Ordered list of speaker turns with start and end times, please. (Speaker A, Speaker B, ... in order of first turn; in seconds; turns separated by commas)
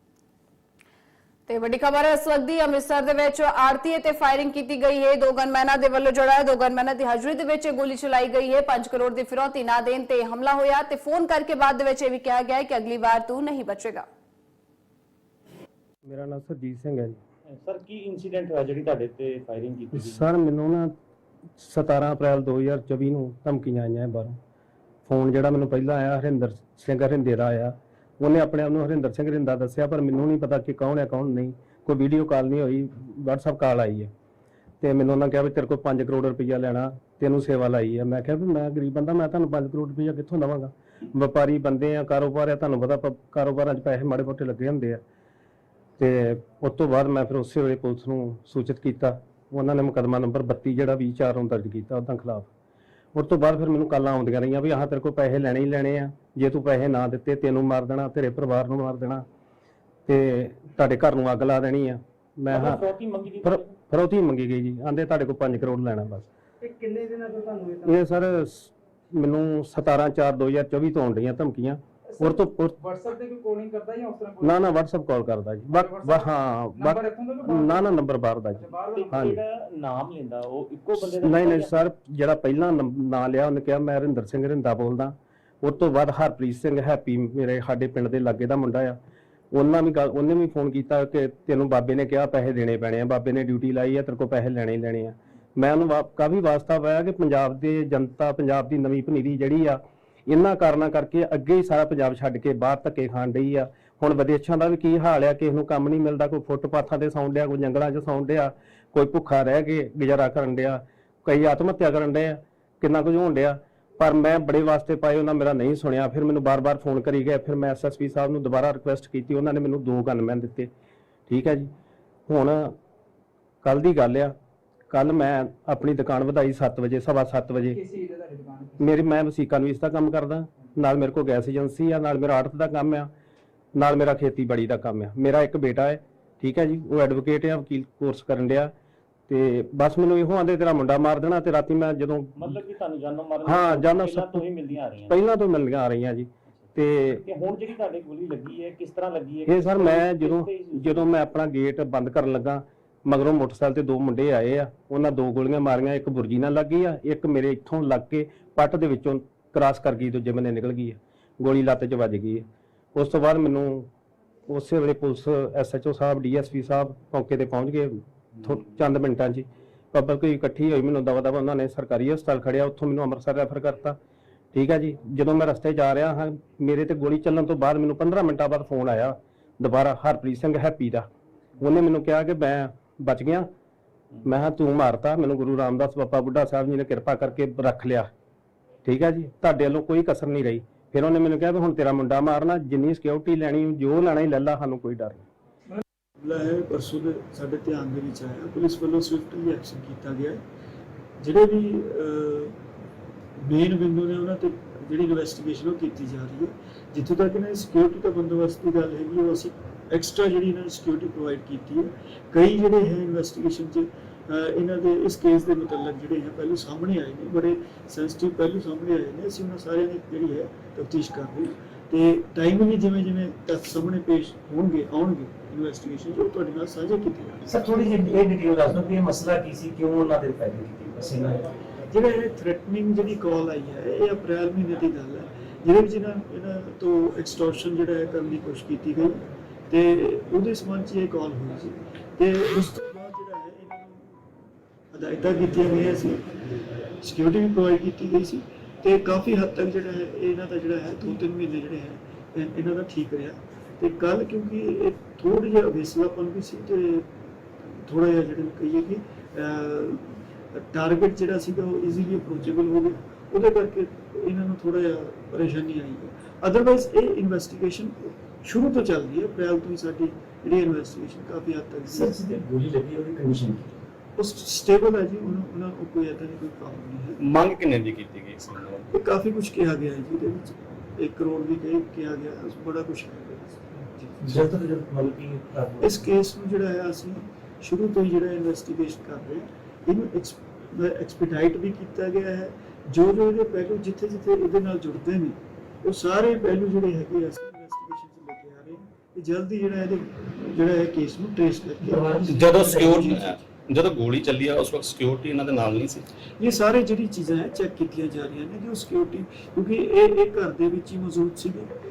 Speaker A: 1.5-14.1, Speaker B: 16.0-17.2, Speaker C: 17.5-20.2, Speaker B: 19.9-20.9, Speaker B: 21.6-24.4, Speaker B: 25.1-34.1, Speaker B: 34.8-45.0, Speaker B: 46.0-52.5, Speaker B: 53.1-59.2, Speaker B: 60.1-62.8, Speaker C: 62.5-63.7, Speaker B: 63.4-66.3, Speaker D: 66.6-67.9, Speaker B: 67.8-72.8, Speaker D: 72.2-74.7, Speaker B: 74.4-79.4, Speaker D: 75.7-77.9, Speaker D: 78.6-79.2, Speaker C: 78.9-81.8, Speaker B: 81.0-89.0, Speaker B: 89.5-120.7, Speaker B: 121.3-121.7, Speaker B: 122.3-122.7, Speaker B: 123.6-124.3, Speaker B: 124.9-127.8, Speaker D: 127.7-128.9, Speaker B: 128.8-133.1, Speaker B: 133.8-138.7, Speaker B: 139.3-142.5, Speaker C: 142.4-145.2, Speaker B: 143.4-144.4, Speaker B: 145.1-147.2, Speaker C: 147.1-151.1, Speaker B: 149.5-163.9, Speaker B: 164.5-174.0, Speaker B: 174.5-181.1, Speaker B: 181.6-183.5, Speaker B: 184.2-188.1, Speaker B: 188.8-195.2, Speaker E: 196.2-200.4, Speaker E: 201.2-202.6, Speaker E: 203.4-227.5, Speaker F: 227.5-231.5, Speaker E: 231.9-244.3, Speaker E: 244.9-246.4, Speaker E: 247.0-272.1, Speaker F: 271.9-273.7, Speaker E: 274.2-277.2, Speaker G: 277.2-278.9, Speaker E: 278.9-284.5, Speaker F: 284.2-286.0, Speaker E: 285.8-302.8, Speaker F: 301.8-303.4, Speaker G: 302.2-306.1, Speaker E: 306.4-311.7